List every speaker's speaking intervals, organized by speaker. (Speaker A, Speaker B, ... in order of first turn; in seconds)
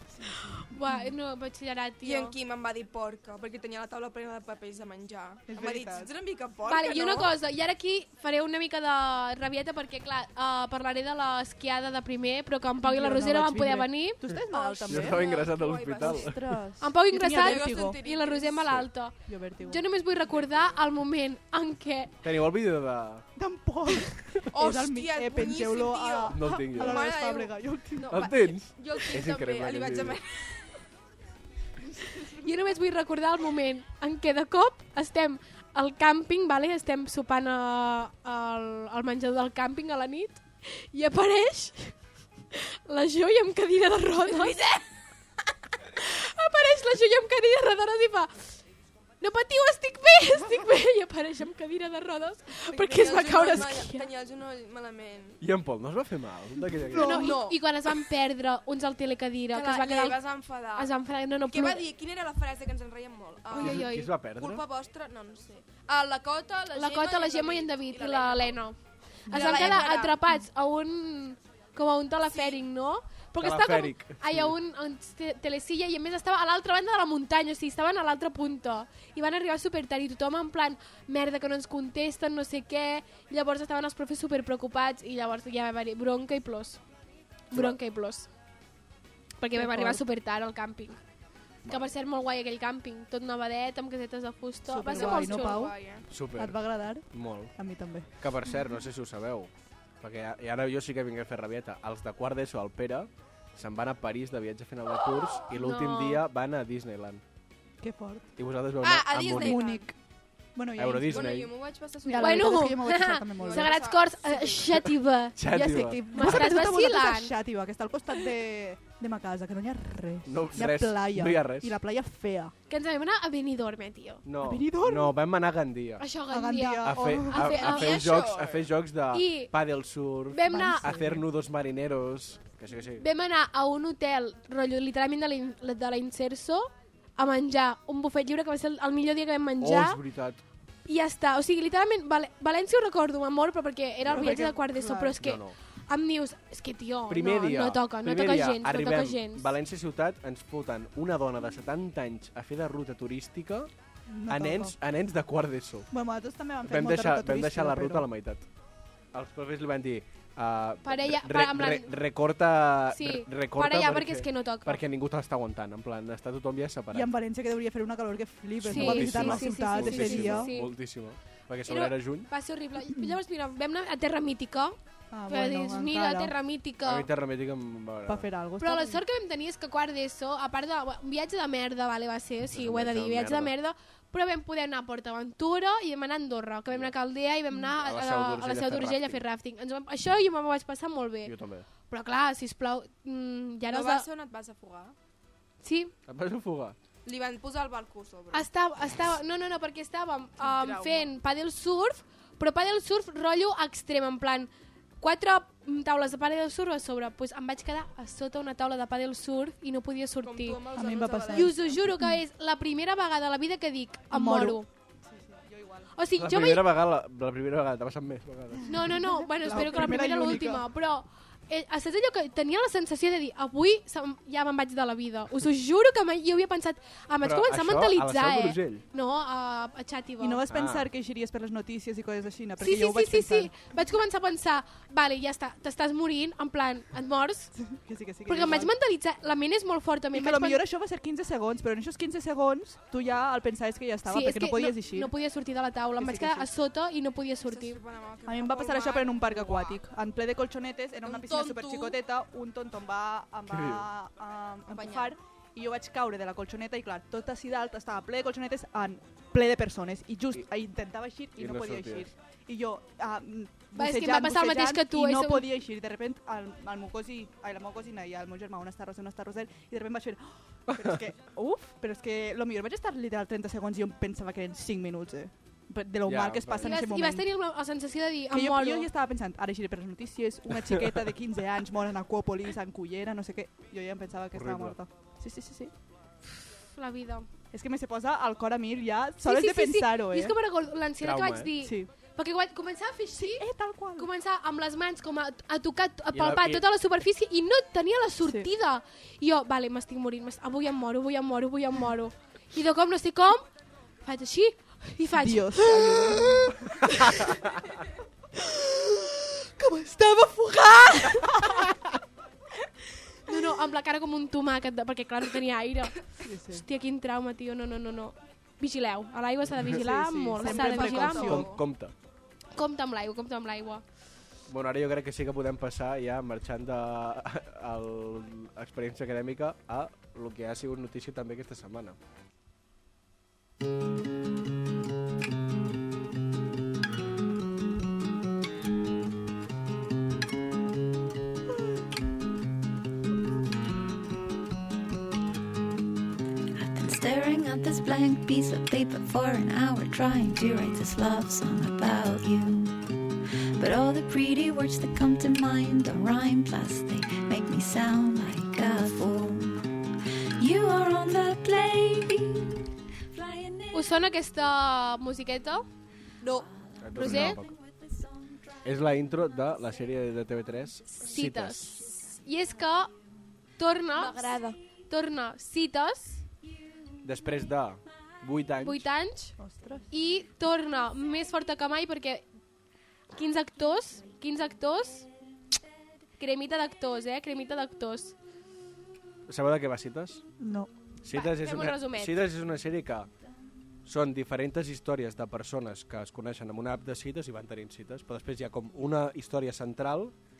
Speaker A: 0.1-1.1, 5.5-6.1, 12.8-18.0, 19.3-19.8, 23.4-28.3, 52.7-53.6, 56.9-57.3, 69.3-69.8, 89.5-90.0, 94.7-95.8, 96.3-98.1, 107.8-108.3, 109.3-110.0, 110.5-111.3, 112.0-113.7, 115.5-122.5, 124.4-125.2, 126.3-127.5, 130.5-131.2, 144.0-145.2, 154.1-154.7, 155.9-158.1, 166.9-170.5, 175.1-176.3, 178.1-179.0, 210.7-212.2, 214.1-215.9, 218.9-220.7, 230.2-233.6, 237.6-238.7, 240.1-245.1, 246.0-246.5, 248.3-277.3, 278.3-285.7, 287.5-290.4, 291.6-291.9, 293.1-294.1, 305.1-306.9, 311.0-311.6, 316.2-316.6, 319.6-321.5, 379.4-379.9, 390.4-390.7
Speaker B: 0.3-2.3, 6.7-14.2, 16.8-22.1, 32.3-41.9, 42.5-44.6, 45.9-48.5, 49.2-54.1, 57.0-60.2, 60.7-61.8, 63.5-64.1, 66.7-68.8, 69.3-86.8, 87.5-88.3, 89.4-91.0, 91.7-95.7, 105.5-106.2, 112.2-117.3, 122.7-124.2, 126.0-128.0, 129.1-129.5, 130.3-130.9, 133.0-140.0, 140.8-149.5, 160.8-161.9, 162.9-164.8, 168.7-170.7, 171.7-177.1, 178.6-191.3, 191.9-194.1, 195.6-195.9, 198.3-204.5, 205.0-210.6, 211.3-214.7, 215.9-216.7, 218.7-230.4, 232.6-237.5, 238.2-240.6, 244.1-247.8, 263.7-265.5, 276.6-278.9, 286.7-287.3, 289.2-293.4, 293.9-303.4, 304.0-307.0, 308.4-309.1, 309.6-311.4, 313.3-321.4, 322.5-323.8, 363.7-365.6, 366.9-367.4, 370.9-372.9, 373.6-376.2, 378.6-379.4, 379.9-382.2, 383.1-385.1, 386.2-388.1, 391.1-392.2
Speaker C: 2.0-7.3, 14.5-16.3, 17.3-18.8, 24.5-30.6, 44.3-44.8, 52.8-55.4, 57.0-57.6, 59.5-60.9, 61.4-68.6, 69.3-70.2, 72.3-72.6, 94.9-96.0, 108.8-109.9, 111.1-112.8, 113.4-114.8, 127.4-128.7, 193.7-194.9, 197.0-198.5, 200.4-201.1, 210.2-211.6, 247.4-249.8, 251.0-252.0, 254.7-255.1, 320.4-321.6, 366.2-366.5, 373.9-374.6
Speaker D: 14.9-16.5, 22.2-23.2, 26.3-27.0, 28.1-30.2, 55.4-57.3, 63.5-64.6, 73.4-74.5, 87.5-87.8, 91.6-91.9, 96.1-97.5, 98.2-107.2, 108.4-109.6, 110.8-111.5, 115.3-116.4, 120.2-121.8, 124.2-126.1, 126.8-133.0, 139.6-140.4, 144.0-144.5, 145.2-145.6, 147.1-153.7, 154.3-155.9, 156.6-158.4, 159.1-167.1, 168.6-172.3, 176.8-178.3, 182.5-183.5, 186.7-186.9, 187.5-189.2, 191.2-191.7, 196.1-196.8, 216.2-218.8, 227.2-228.8, 230.5-230.9, 253.5-253.9, 261.4-262.1, 270.7-271.0, 276.0-276.8, 284.3-284.8, 291.0-291.5, 296.1-296.6, 321.0-321.9, 324.5-332.0, 366.8-367.5, 368.6-371.8, 377.0-378.9, 389.3-390.2, 391.0-393.1, 393.8-400.1
Speaker E: 346.5-352.8, 353.6-359.7, 360.4-363.8